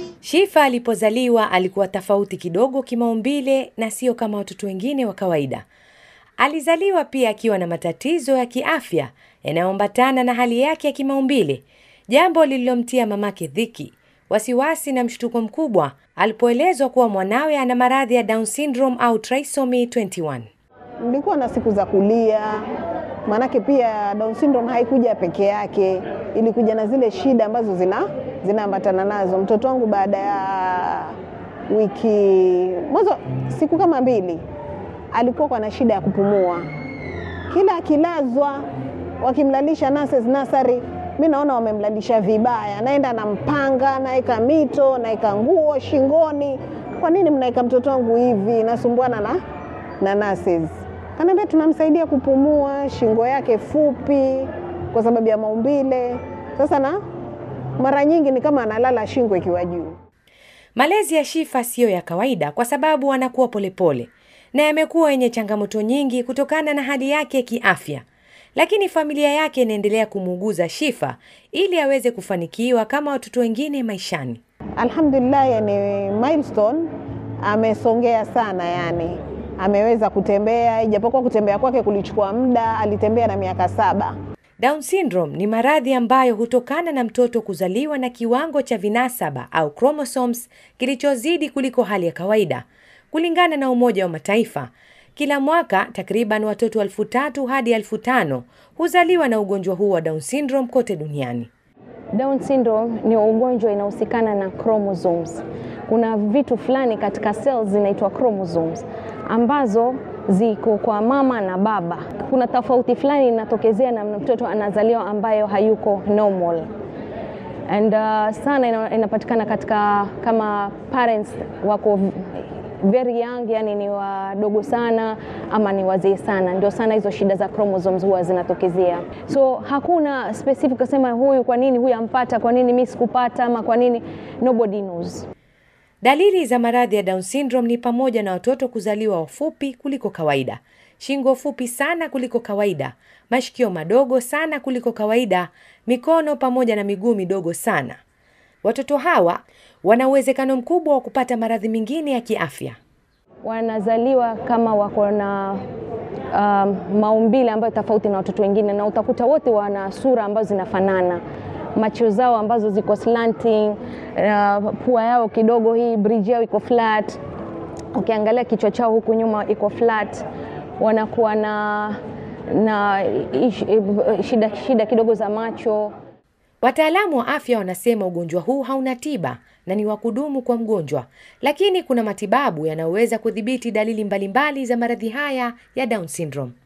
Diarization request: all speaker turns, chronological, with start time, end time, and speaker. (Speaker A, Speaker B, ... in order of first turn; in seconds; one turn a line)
Speaker A: 0.2-5.6
Speaker A: 6.4-20.5
Speaker B: 21.0-22.7
Speaker B: 23.2-31.1
Speaker B: 31.7-34.4
Speaker B: 35.1-36.6
Speaker B: 37.5-38.6
Speaker B: 39.2-49.4
Speaker B: 50.0-57.0
Speaker B: 57.8-59.9
Speaker A: 60.8-74.4
Speaker B: 74.8-76.9
Speaker B: 77.4-84.1
Speaker A: 84.6-101.5
Speaker C: 102.1-116.7
Speaker C: 117.7-135.2
Speaker A: 136.0-148.0
Speaker A: 148.6-152.8
Speaker C: 153.4-155.6
Speaker C: 156.3-161.2
Speaker C: 161.7-167.2
Speaker C: 167.9-170.2
Speaker C: 170.8-172.0
Speaker C: 172.5-175.9
Speaker A: 176.6-186.5